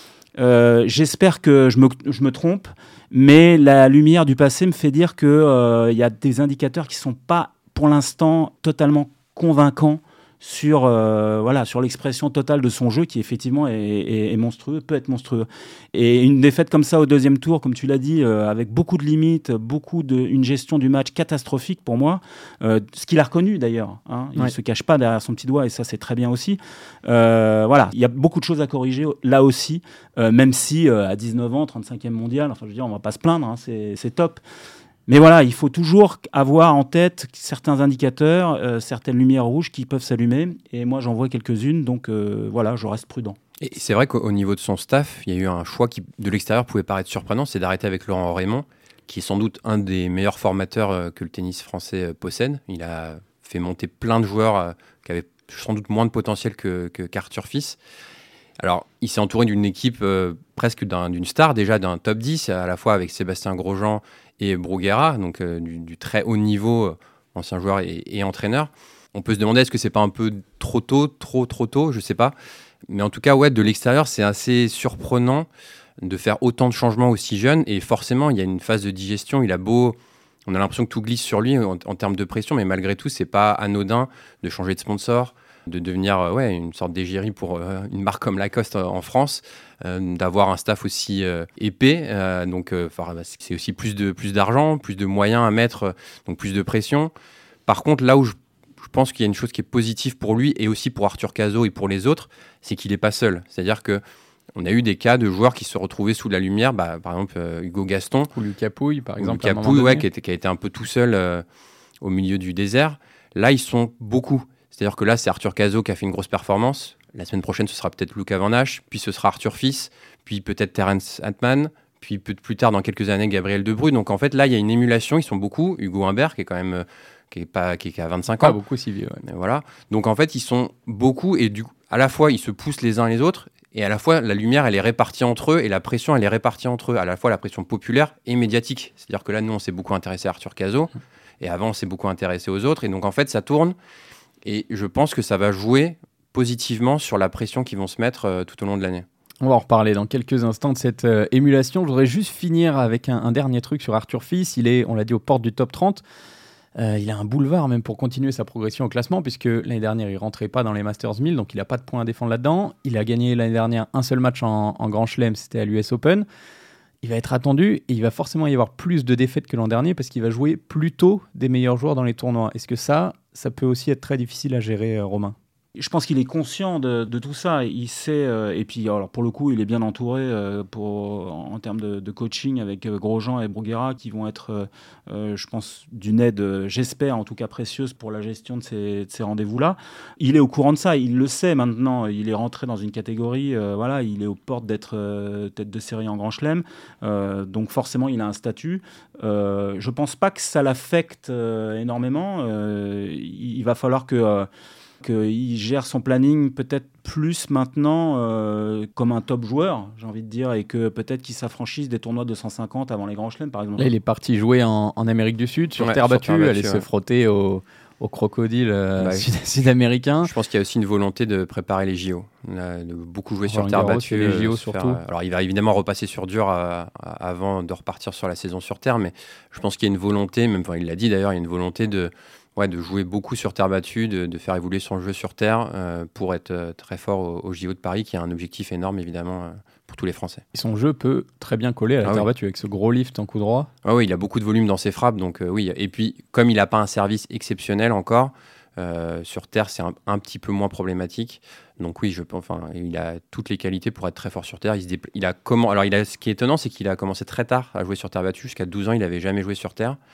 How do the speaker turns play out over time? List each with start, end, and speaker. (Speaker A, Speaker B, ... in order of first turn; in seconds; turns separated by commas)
Speaker A: 0.4-34.4, Speaker A: 35.1-43.4, Speaker B: 43.6-57.8, Speaker B: 58.6-72.3, Speaker B: 72.9-75.5, Speaker B: 76.0-97.1, Speaker B: 97.7-104.0, Speaker B: 104.6-108.3, Speaker C: 108.3-110.1, Speaker B: 109.2-111.5, Speaker B: 112.0-128.6, Speaker C: 128.4-129.2, Speaker B: 129.2-143.8, Speaker B: 144.4-149.1, Speaker C: 149.4-156.0, Speaker C: 156.8-166.2, Speaker C: 167.0-175.3, Speaker A: 175.8-204.5, Speaker A: 205.0-213.9, Speaker C: 213.8-220.3, Speaker B: 215.8-216.8, Speaker B: 219.0-219.3, Speaker B: 220.2-240.4, Speaker C: 223.5-225.0, Speaker C: 240.5-243.7, Speaker B: 243.8-260.0